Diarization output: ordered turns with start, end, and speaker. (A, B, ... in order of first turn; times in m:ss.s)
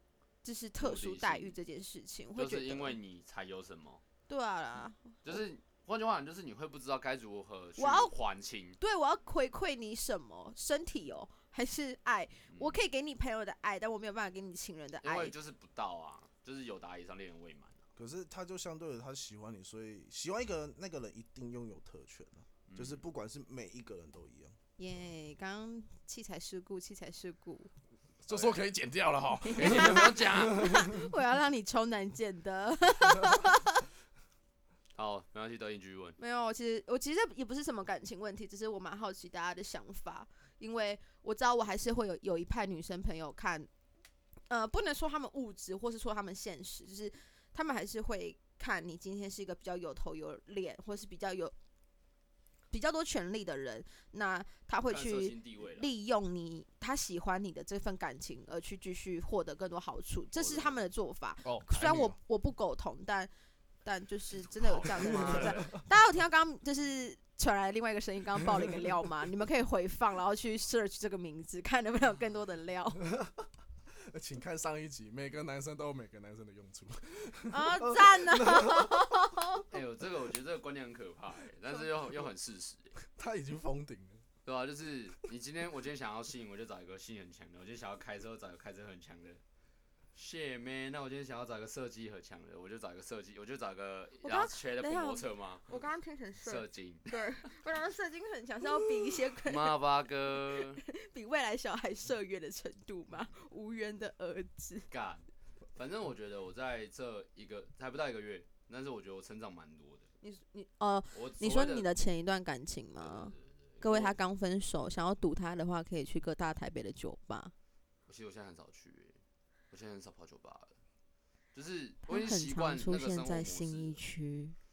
0:00.4-0:03.0 A
0:00.8-0:01.6 B
0:02.4-0:04.0 B
0:04.3-0:05.4 A
0:05.2-0:08.8 B
0:07.8-0:08.1 A
0:08.8-0:15.3 A
0:12.5-0:12.8 B
0:15.0-0:17.8 B
0:18.0-0:24.6 C
0:22.7-0:23.0 B
0:24.8-0:27.7 A
0:28.2-0:31.1 C
0:28.3-0:28.6 B
0:29.5-0:33.9 A
0:29.5-0:30.8 B
0:35.0-0:36.2 B
0:36.2-0:43.7 A
0:44.5-0:51.5 A
0:52.7-1:03.3 A
0:54.9-0:55.9 B
1:00.4-1:00.8 B
1:01.5-1:02.2 C
1:03.8-1:13.0 A
1:04.6-1:05.7 B
1:05.0-1:05.8 C
1:13.0-1:13.5 C
1:14.0-1:19.4 C
1:17.5-1:19.6 A
1:19.7-1:23.0 B
1:23.0-1:24.2 C
1:24.4-1:29.4 B
1:30.1-1:35.8 B
1:34.2-1:44.9 A
1:36.4-1:37.2 B
1:39.4-1:40.8 B
1:44.9-1:50.1 B
1:50.2-1:57.5 A
1:51.1-1:51.9 B
1:53.0-1:54.2 B
1:58.1-1:59.2 B
1:59.7-2:00.8 B
2:01.5-2:04.0 B
2:02.1-2:04.6 A